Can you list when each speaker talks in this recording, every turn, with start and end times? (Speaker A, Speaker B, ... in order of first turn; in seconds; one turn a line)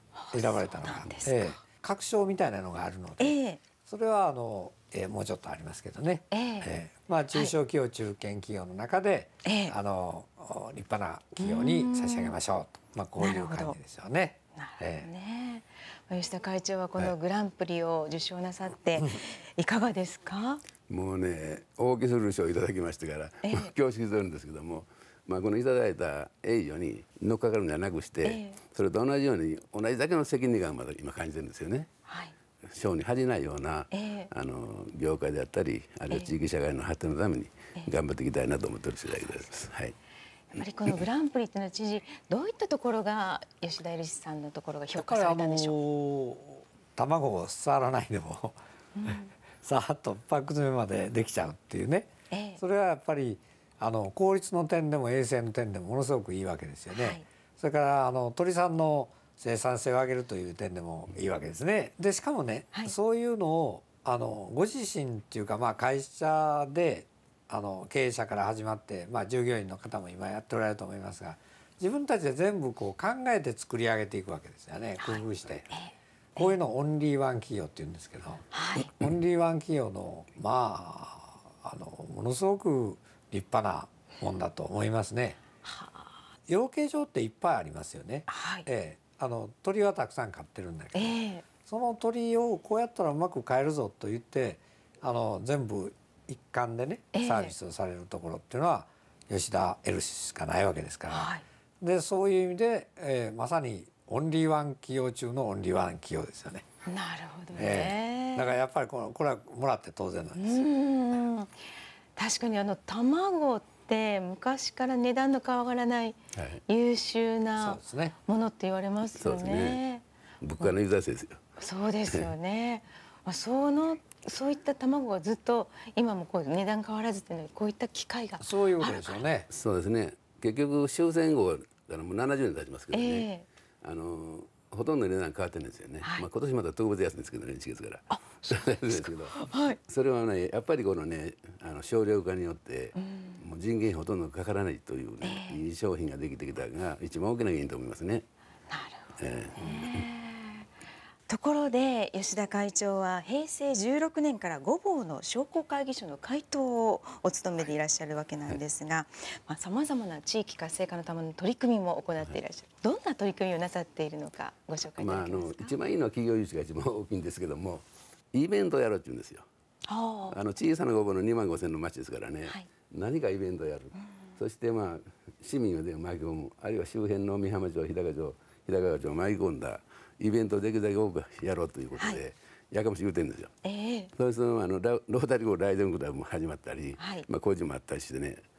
Speaker A: 0.1-1.6
Speaker B: 0.3-15.1
Speaker A: 3.2-3.6
Speaker A: 6.3-6.7
Speaker A: 9.4-9.8
Speaker A: 11.4-12.3
Speaker A: 13.2-13.8
Speaker A: 14.6-20.6
Speaker C: 20.9-31.9
Speaker A: 23.4-23.7
Speaker A: 28.2-28.6
Speaker A: 32.1-32.3
Speaker C: 32.7-40.0
Speaker A: 33.9-34.3
Speaker A: 40.5-45.8
Speaker B: 44.9-48.6
Speaker A: 48.9-49.3
Speaker B: 49.6-75.7
Speaker A: 52.3-52.6
Speaker A: 56.9-57.2
Speaker A: 75.0-76.5
Speaker B: 76.3-85.4
Speaker A: 78.5-78.9
Speaker A: 85.6-86.1
Speaker B: 86.5-106.7
Speaker A: 88.3-88.7
Speaker A: 90.9-91.4
Speaker A: 97.1-97.5
Speaker A: 101.1-101.4
Speaker A: 106.8-108.5
Speaker B: 107.5-110.7
Speaker A: 110.3-120.0
Speaker C: 116.3-116.6
Speaker B: 117.6-118.1
Speaker C: 119.2-119.8
Speaker C: 120.4-121.4
Speaker A: 121.6-129.2
Speaker B: 128.4-129.5
Speaker C: 129.5-133.3
Speaker A: 132.9-133.4
Speaker C: 133.8-148.2
Speaker A: 136.0-136.3
Speaker A: 138.1-139.8
Speaker A: 143.0-143.4
Speaker A: 145.2-145.6
Speaker A: 148.7-150.7
Speaker C: 149.2-150.1
Speaker A: 151.3-165.7
Speaker C: 165.0-169.4
Speaker A: 169.9-170.3
Speaker C: 170.3-183.5
Speaker A: 183.6-184.1
Speaker C: 184.2-188.4
Speaker A: 187.0-187.2